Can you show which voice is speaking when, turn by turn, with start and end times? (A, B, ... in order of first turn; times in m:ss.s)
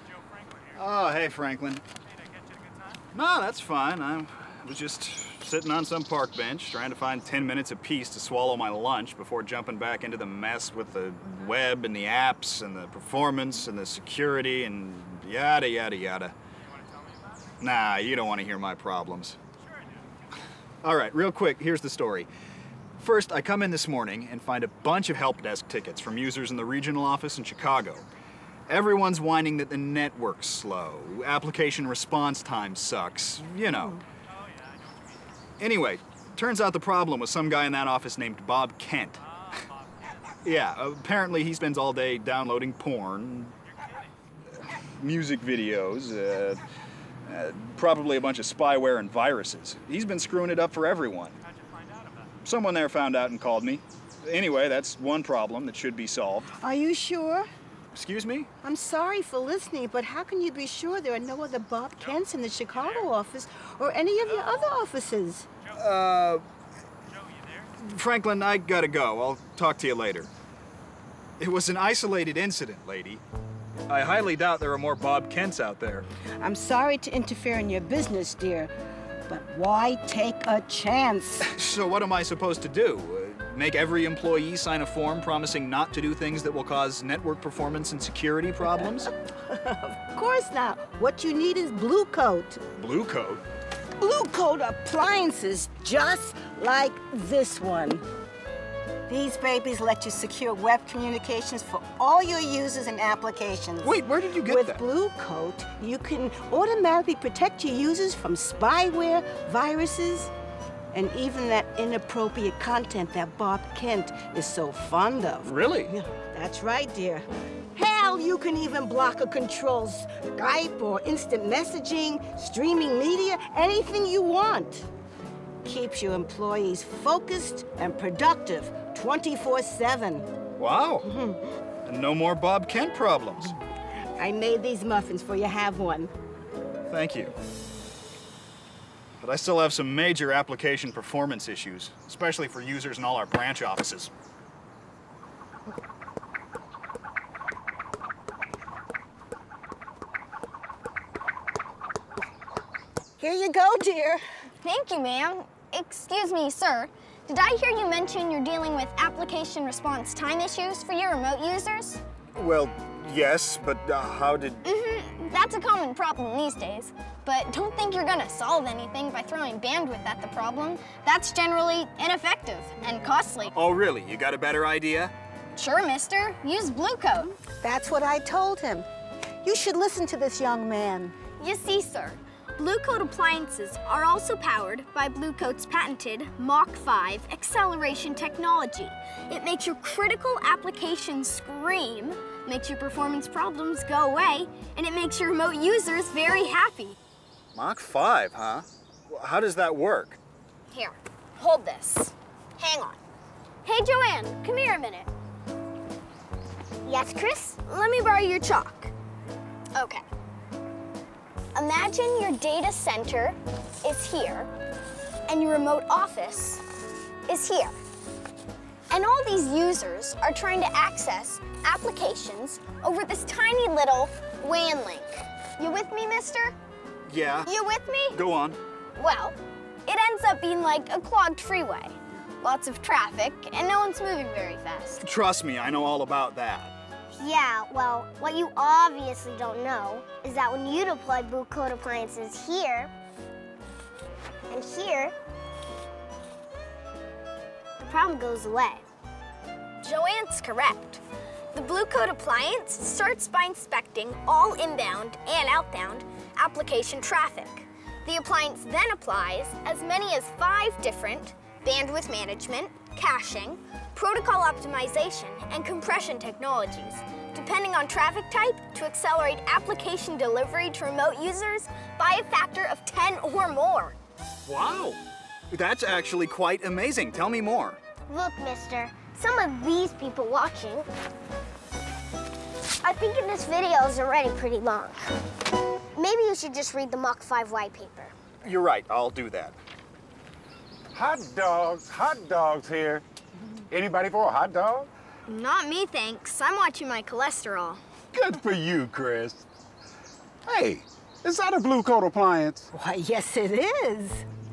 0:00.7-0:01.8 A
0:03.1-0:16.3 A
0:17.6-0:19.4 A
0:20.8-0:22.3 A
0:23.0-0:28.0 A
0:28.7-0:34.0 A
0:35.6-0:39.2 A
0:40.4-0:43.6 A
0:44.6-0:46.6 A
0:47.3-0:51.4 A
0:52.4-0:56.5 A
0:56.6-0:57.5 B
0:57.9-0:58.5 A
0:58.6-1:05.5 B
1:05.7-1:06.4 A
1:07.8-1:10.3 A
1:11.4-1:13.2 A
1:13.9-1:16.1 A
1:16.4-1:18.7 B
1:19.3-1:21.5 B
1:21.5-1:29.1 A
1:29.2-1:32.6 B
1:32.8-1:33.4 A
1:34.0-1:38.0 B
1:39.1-1:50.3 B
1:43.8-1:44.8 A
1:50.9-1:57.2 B
1:55.4-1:55.9 A
1:57.8-2:04.9 B
2:05.6-2:10.3 B
2:10.6-2:11.1 A
2:11.0-2:11.4 B
2:11.8-2:13.6 A
2:14.2-2:16.1 B
2:16.9-2:17.3 A
2:19.2-2:24.1 A
2:33.2-2:34.2 B
2:34.6-2:42.0 C
2:42.4-2:44.6 A
2:44.6-2:53.5 C
2:53.5-2:55.1 A
2:55.5-2:57.4 C
2:57.6-2:58.9 B
2:59.4-3:01.1 B
3:01.4-3:17.0 C
3:17.5-3:20.2 A
3:20.7-3:23.0 C
3:23.6-3:25.1 C
3:26.8-3:28.9 C
3:29.7-3:30.0 C
3:31.5-3:34.5 C
3:35.3-3:36.6 C
3:37.3-3:37.7 C
3:38.9-3:46.6 C
3:47.1-3:47.5 A
3:47.4-3:48.2 C
3:48.1-3:48.6 A
3:49.0-3:55.0 C
3:55.0-3:56.7 A
3:57.1-4:02.9 D
4:04.5-4:05.1 D
4:07.8-4:08.8 D
4:09.8-4:11.0 C
4:11.5-4:34.0 C
4:34.5-4:35.0 A
4:35.5-4:37.8 A
4:38.1-4:40.9 D
4:42.8-4:45.0 D
4:46.0-4:48.1 D
4:48.4-4:49.6 A
4:50.9-4:53.0 E
4:53.7-4:54.9 E
4:55.3-4:57.8 C
4:58.1-4:59.5 E
5:00.5-5:02.7 E
5:02.7-5:04.2 B